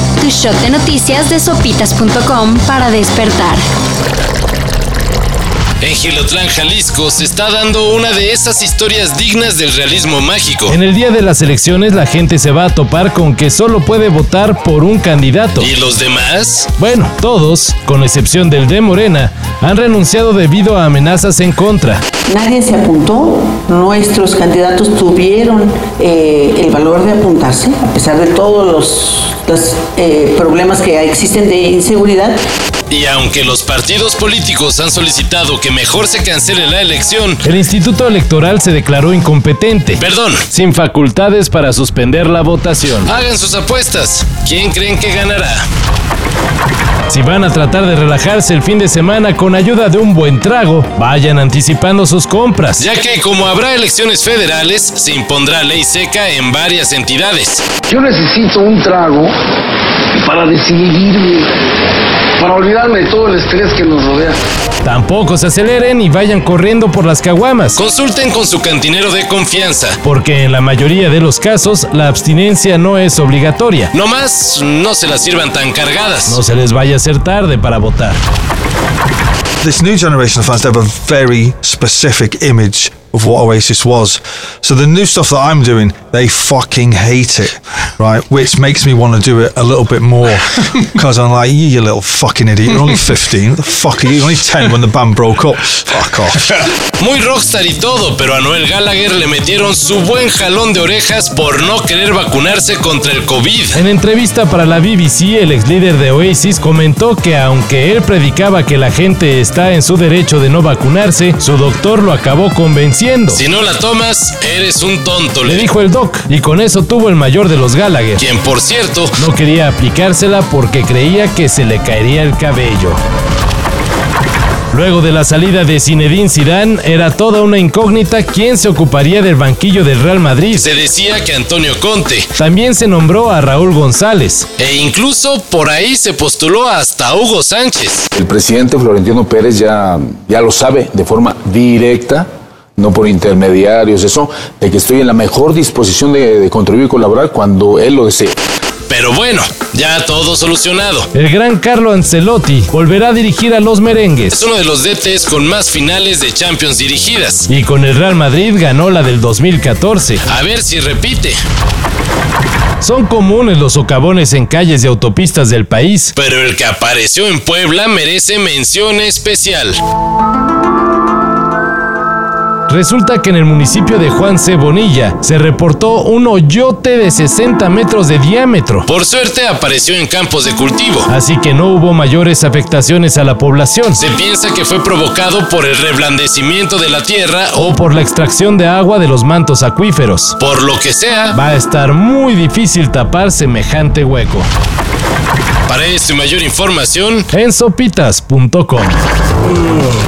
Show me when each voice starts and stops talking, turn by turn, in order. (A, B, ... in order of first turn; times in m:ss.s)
0:00.2-0:03.6 A
0:05.8-0:10.7 B
0:10.7-0:15.7 C
0:15.6-0:16.7 B
0:16.7-0:22.0 C
0:22.3-0:32.4 D
0:32.9-0:37.4 B
0:37.4-0:43.1 C
0:40.0-0:40.4 B
0:43.1-0:45.7 B
0:47.1-0:52.9 C
0:52.8-0:55.7 B
0:56.4-0:57.6 C
0:57.9-0:59.3 E
1:00.2-1:01.5 E
1:02.4-1:04.4 E
1:04.8-1:07.8 C
1:07.8-1:10.0 B
1:10.0-1:13.9 C
1:13.9-1:16.4 B
1:16.2-1:18.2 C
1:19.6-1:36.4 F
1:37.0-1:43.8 B
1:43.7-1:53.4 C
1:53.3-1:55.6 B
1:55.4-1:58.2 C
1:58.2-1:59.2 B
1:59.2-2:03.0 C
2:04.7-2:10.6 C
2:10.6-2:12.3 B
2:12.3-2:14.6 C
2:14.6-2:18.1 B
2:18.2-2:28.4 G
2:28.9-2:31.1 B
2:31.1-2:34.4 C
2:34.3-2:37.5 B
2:37.5-2:40.3 C
2:40.2-2:41.4 B
2:42.8-2:46.2 C
2:46.2-2:49.8 B
2:52.7-2:58.9 C
2:58.9-3:01.1 B
3:01.1-3:04.0 C
3:04.0-3:07.6 B
3:07.6-3:10.4 C
3:10.4-3:11.4 B
3:11.3-3:14.5 C
3:15.7-3:17.3 B
3:17.3-3:19.0 C